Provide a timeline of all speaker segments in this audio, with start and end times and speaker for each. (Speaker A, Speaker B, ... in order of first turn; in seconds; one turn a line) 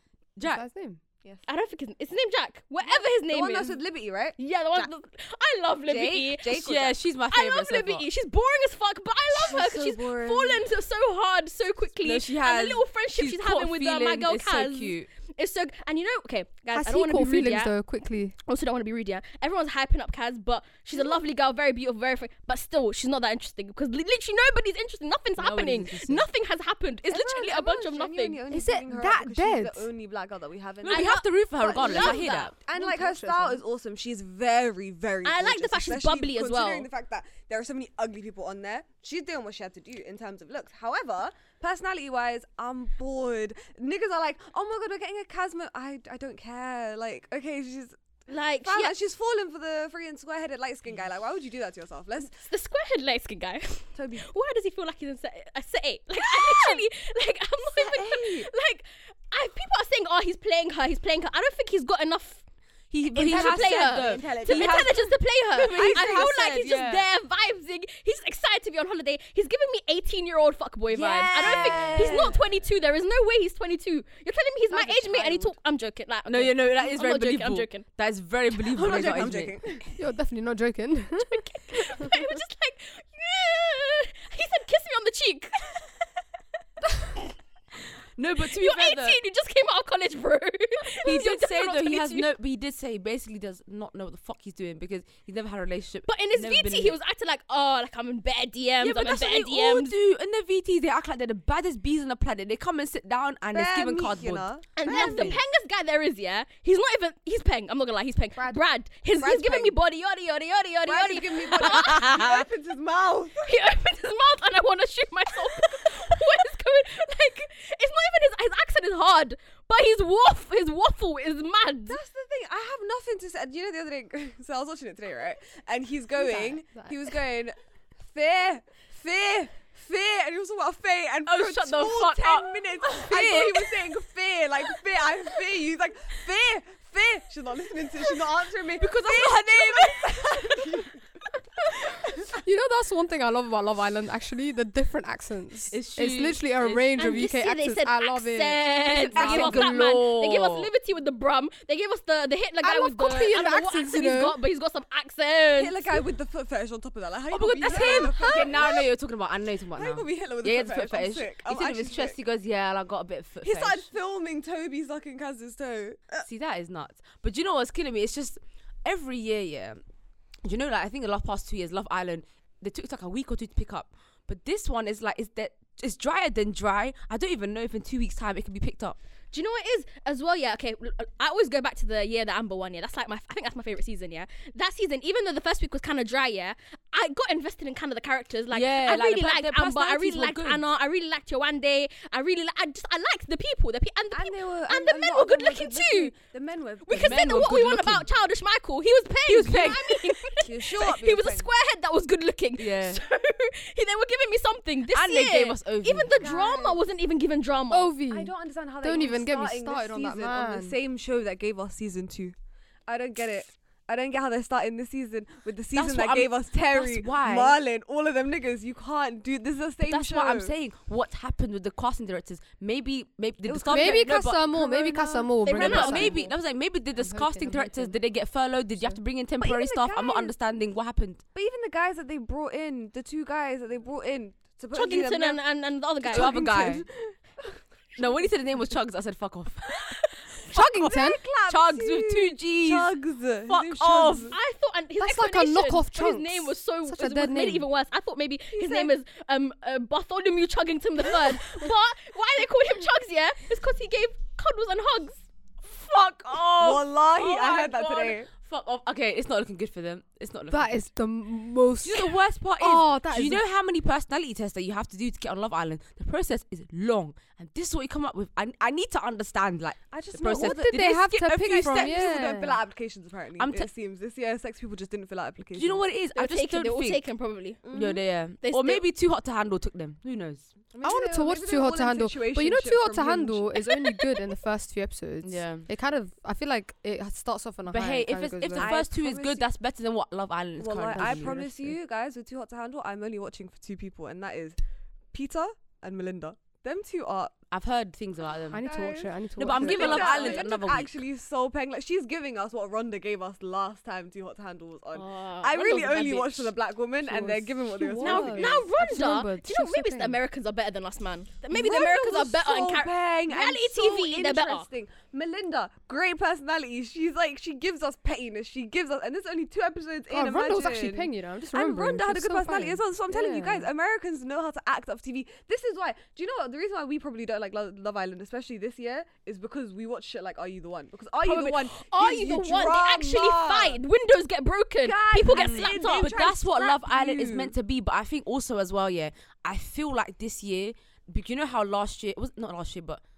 Speaker A: 0.3-0.6
Speaker B: 0.4-1.0
Speaker C: 1.5-3.8
Speaker D: 2.8-4.9
Speaker C: 4.4-6.6
Speaker D: 5.9-7.0
Speaker A: 6.4-8.0
Speaker C: 7.3-17.7
Speaker D: 9.3-10.7
Speaker A: 12.0-15.1
Speaker B: 16.7-18.3
Speaker C: 18.4-28.4
Speaker A: 25.4-26.3
Speaker D: 27.1-48.0
Speaker B: 28.5-29.9
Speaker A: 30.8-32.5
Speaker C: 30.9-32.5
Speaker B: 32.7-33.6
Speaker C: 35.2-36.9
Speaker C: 48.3-48.9
Speaker D: 48.6-52.4
Speaker C: 52.2-62.4
Speaker D: 53.9-54.2
Speaker D: 56.2-56.8
Speaker D: 57.7-58.5
Speaker A: 62.9-67.0
Speaker C: 63.1-77.8
Speaker D: 63.2-66.4
Speaker D: 70.9-72.5
Speaker A: 71.4-71.9
Speaker B: 74.8-75.4
Speaker A: 76.3-79.5
Speaker D: 78.7-79.9
Speaker B: 79.9-82.2
Speaker C: 81.2-86.0
Speaker C: 86.9-87.2
Speaker A: 88.2-89.2
Speaker C: 88.4-92.3
Speaker A: 91.0-97.0
Speaker C: 96.1-99.9
Speaker A: 98.8-105.4
Speaker D: 103.5-105.4
Speaker C: 104.8-112.5
Speaker D: 109.2-109.8
Speaker D: 110.8-113.5
Speaker A: 111.6-111.9
Speaker C: 113.4-122.0
Speaker D: 121.9-141.0
Speaker B: 126.2-126.9
Speaker A: 131.2-133.8
Speaker A: 138.8-140.6
Speaker D: 141.9-142.3
Speaker B: 142.3-148.6
Speaker A: 145.7-146.9
Speaker C: 147.0-156.0
Speaker A: 148.9-150.7
Speaker B: 149.1-149.7
Speaker B: 152.6-154.4
Speaker D: 155.6-158.9
Speaker A: 157.3-163.9
Speaker B: 157.7-158.5
Speaker D: 159.7-162.1
Speaker D: 163.4-166.2
Speaker A: 166.2-169.8
Speaker A: 170.4-179.0
Speaker C: 179.3-196.1
Speaker A: 188.5-190.6
Speaker D: 194.1-197.5
Speaker C: 196.8-207.9
Speaker A: 196.9-198.1
Speaker A: 199.3-200.0
Speaker D: 200.4-201.5
Speaker A: 202.6-203.0
Speaker A: 204.9-206.2
Speaker D: 206.1-206.8
Speaker B: 207.7-210.8
Speaker D: 208.1-212.3
Speaker D: 212.9-220.5
Speaker A: 215.7-217.6
Speaker A: 219.8-224.5
Speaker D: 223.4-226.0
Speaker B: 223.7-226.2
Speaker C: 225.4-226.3
Speaker A: 225.5-231.2
Speaker B: 226.9-228.0
Speaker D: 229.4-230.3
Speaker D: 231.3-235.4
Speaker C: 234.7-236.7
Speaker D: 236.0-237.5
Speaker A: 236.1-236.8
Speaker A: 237.9-239.9
Speaker A: 240.4-242.9
Speaker B: 240.5-241.2
Speaker D: 240.5-244.3
Speaker A: 243.5-244.3
Speaker C: 244.3-255.2
Speaker B: 245.0-247.7
Speaker D: 248.5-248.9
Speaker A: 255.6-260.8
Speaker D: 256.6-258.3
Speaker B: 260.5-263.4
Speaker A: 261.8-272.0
Speaker D: 269.9-270.8
Speaker B: 270.2-272.6
Speaker D: 271.5-275.8
Speaker A: 273.4-273.7
Speaker A: 275.6-277.0
Speaker C: 276.1-277.6
Speaker D: 277.6-278.0
Speaker A: 277.7-280.5
Speaker C: 278.4-278.8
Speaker D: 280.7-284.0
Speaker B: 280.8-288.8
Speaker A: 285.2-285.7
Speaker A: 287.7-291.7
Speaker D: 288.6-289.4
Speaker D: 290.6-294.6
Speaker B: 290.9-291.6
Speaker D: 295.1-297.4
Speaker A: 297.5-298.6
Speaker B: 298.5-300.4
Speaker D: 298.6-308.6
Speaker A: 299.4-300.9
Speaker C: 304.9-306.5
Speaker B: 307.0-310.2
Speaker C: 308.0-314.7
Speaker D: 311.5-333.8
Speaker B: 320.1-323.7
Speaker C: 331.2-336.4
Speaker D: 334.8-337.5
Speaker A: 335.3-343.0